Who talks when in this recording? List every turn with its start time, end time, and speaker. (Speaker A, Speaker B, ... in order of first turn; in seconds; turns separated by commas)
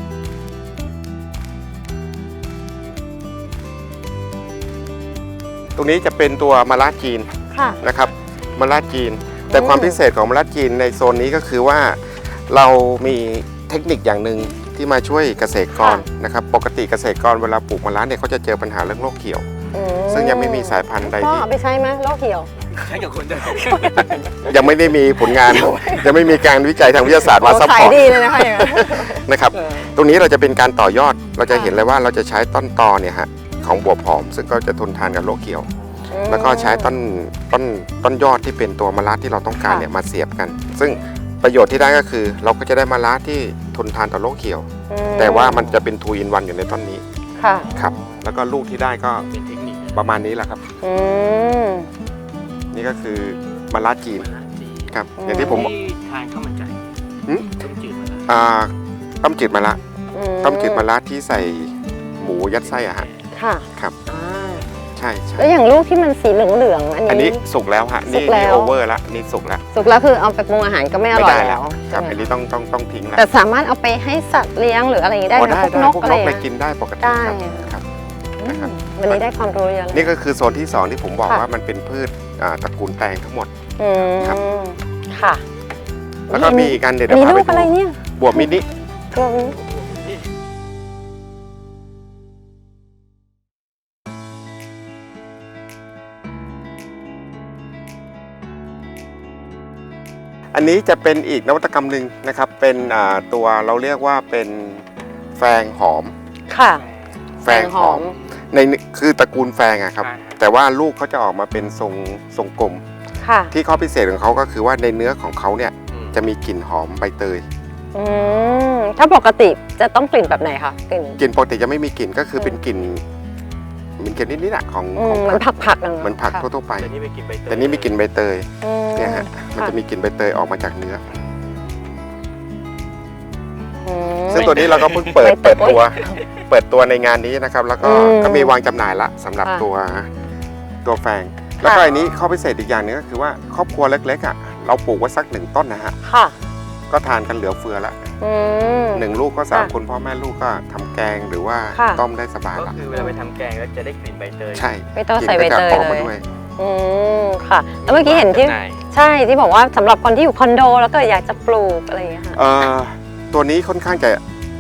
Speaker A: 5.8-7.3, Speaker B: 7.5-7.8, Speaker A: 7.8-19.5, Speaker B: 9.5-10.0, Speaker B: 15.8-16.1, Speaker B: 19.7-22.5, Speaker A: 20.1-21.5, Speaker C: 22.8-24.4, Speaker B: 23.5-24.2, Speaker A: 24.4-35.7, Speaker C: 25.5-26.1, Speaker B: 27.2-29.3, Speaker B: 31.5-31.8, Speaker B: 36.1-36.9, Speaker A: 36.3-47.0, Speaker B: 44.9-45.6, Speaker B: 47.4-47.7, Speaker A: 47.7-49.3, Speaker C: 49.3-50.0, Speaker A: 49.9-50.6, Speaker B: 50.8-51.9, Speaker A: 52.7-54.3, Speaker C: 54.2-54.9, Speaker A: 54.9-55.7, Speaker B: 55.2-55.7, Speaker C: 55.5-56.8, Speaker A: 57.3-57.6, Speaker C: 57.6-58.3, Speaker A: 58.3-59.8, Speaker B: 60.1-60.9, Speaker A: 60.4-63.1, Speaker B: 63.3-64.7, Speaker A: 65.0-65.5, Speaker B: 65.4-67.4, Speaker A: 67.1-69.6, Speaker B: 68.1-68.8, Speaker B: 69.7-72.3, Speaker A: 71.1-73.3, Speaker B: 73.2-76.4, Speaker A: 75.3-77.8, Speaker B: 77.0-77.7, Speaker B: 78.4-80.1, Speaker A: 78.4-79.2, Speaker A: 79.9-83.5, Speaker B: 83.8-85.4, Speaker A: 84.0-84.4, Speaker B: 86.3-88.5, Speaker A: 86.3-88.7, Speaker B: 89.1-89.6, Speaker A: 100.5-104.8, Speaker A: 105.4-106.1, Speaker B: 106.5-106.8, Speaker A: 107.4-112.8, Speaker B: 107.5-108.1, Speaker C: 110.0-110.4, Speaker B: 113.2-113.5, Speaker A: 113.5-117.5, Speaker B: 117.9-121.2, Speaker A: 121.2-123.0, Speaker A: 124.0-126.9, Speaker B: 125.0-126.5, Speaker C: 126.9-127.9, Speaker A: 127.5-131.0, Speaker B: 128.6-129.8, Speaker B: 133.8-136.2, Speaker A: 134.3-140.1, Speaker C: 134.4-135.1, Speaker B: 137.8-138.5, Speaker A: 140.8-146.0, Speaker B: 141.6-141.9, Speaker B: 146.0-146.3, Speaker A: 146.9-148.0, Speaker B: 148.2-149.7, Speaker A: 148.9-152.8, Speaker B: 151.7-152.0, Speaker C: 152.6-154.7, Speaker A: 154.5-156.2, Speaker B: 154.9-162.4, Speaker C: 157.8-158.8, Speaker A: 162.3-164.2